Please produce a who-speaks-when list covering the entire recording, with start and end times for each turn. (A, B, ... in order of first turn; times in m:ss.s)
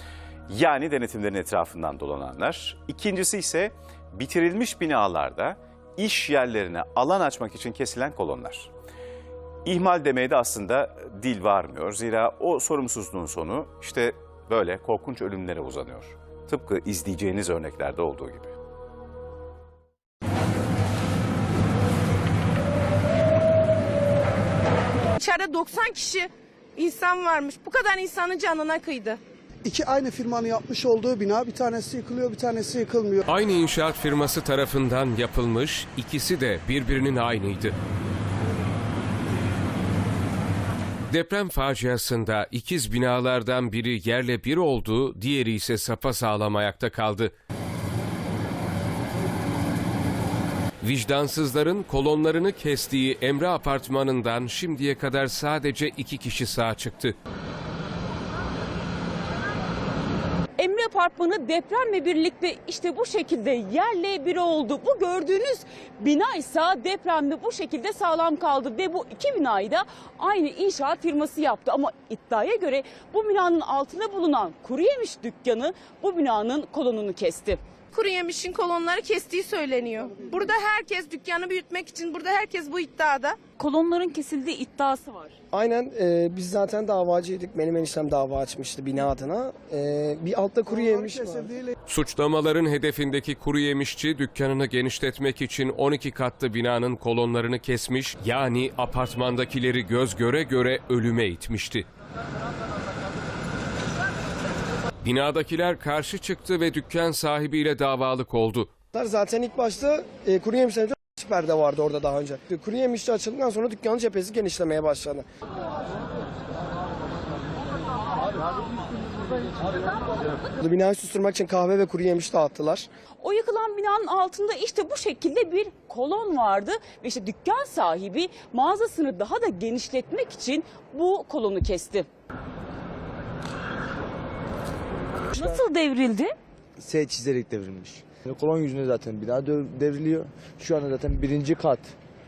0:00.5-0:08.7 A
0:09.6-0:18.6 A
0:25.2-0:29.2 B
0:29.6-0:33.2 C
0:33.3-0:37.7 D
0:41.1-0:47.3 D
0:50.8-0:57.1 D
1:00.6-1:17.6 E
1:17.9-1:23.4 B
1:23.6-1:25.3 E
1:25.5-1:31.6 F
1:30.7-1:31.7 C
1:31.9-1:41.8 D
1:45.0-1:48.7 D
1:48.9-1:55.2 F
2:00.6-2:02.9 F
2:03.2-2:12.1 E
2:15.3-2:16.3 E
2:16.8-2:21.9 G